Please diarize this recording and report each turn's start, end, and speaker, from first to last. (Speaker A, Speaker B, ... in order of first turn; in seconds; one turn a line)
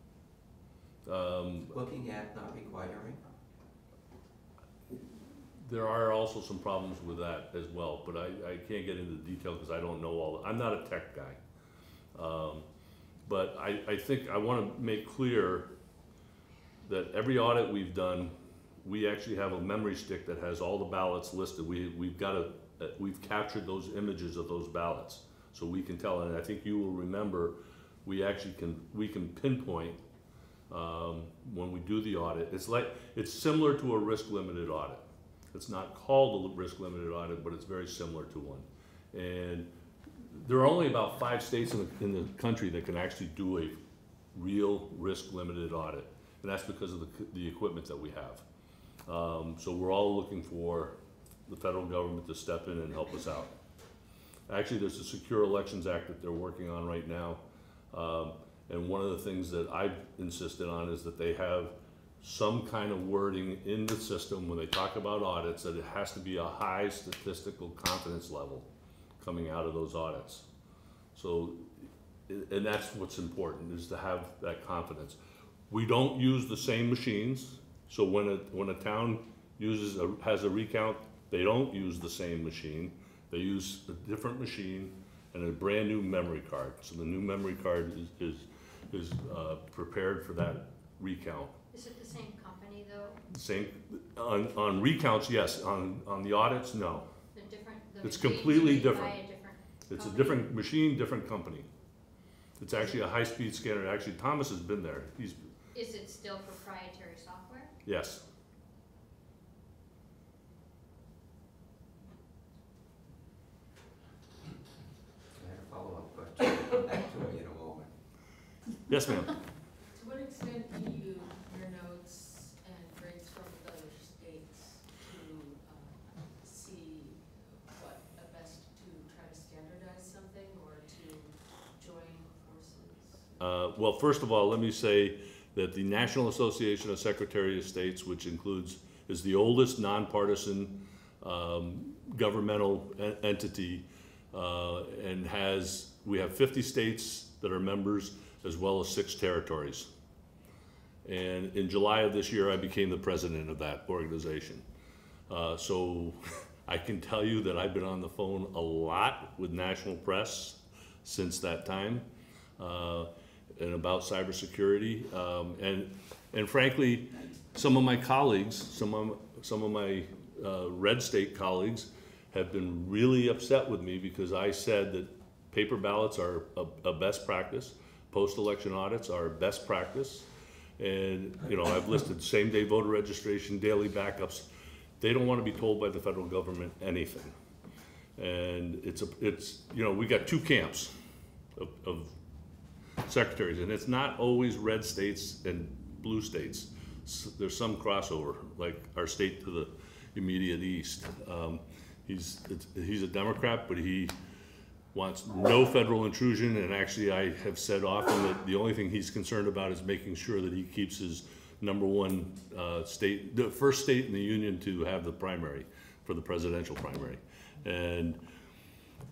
Speaker A: 1.1-1.7
Speaker B: 1.7-3.2
Speaker A: 5.6-11.4
Speaker A: 12.2-12.7
Speaker A: 13.3-15.7
Speaker A: 16.8-30.0
Speaker A: 30.7-39.7
Speaker A: 40.2-43.8
Speaker A: 44.3-48.5
Speaker A: 49.1-53.5
Speaker A: 54.5-68.7
Speaker A: 69.2-70.5
Speaker A: 71.1-75.2
Speaker A: 75.7-91.5
Speaker C: 91.7-93.2
Speaker A: 93.3-97.1
Speaker C: 97.3-100.5
Speaker A: 98.0-99.2
Speaker A: 99.9-101.7
Speaker A: 102.6-105.5
Speaker C: 105.7-107.7
Speaker A: 107.8-108.2
Speaker B: 115.3-117.9
Speaker A: 118.9-119.3
Speaker D: 119.9-133.4
Speaker A: 133.4-149.9
Speaker A: 151.1-154.7
Speaker A: 155.3-184.5
Speaker A: 185.0-187.3
Speaker A: 188.2-190.9
Speaker A: 191.6-192.2
Speaker A: 193.0-204.1
Speaker A: 204.9-218.2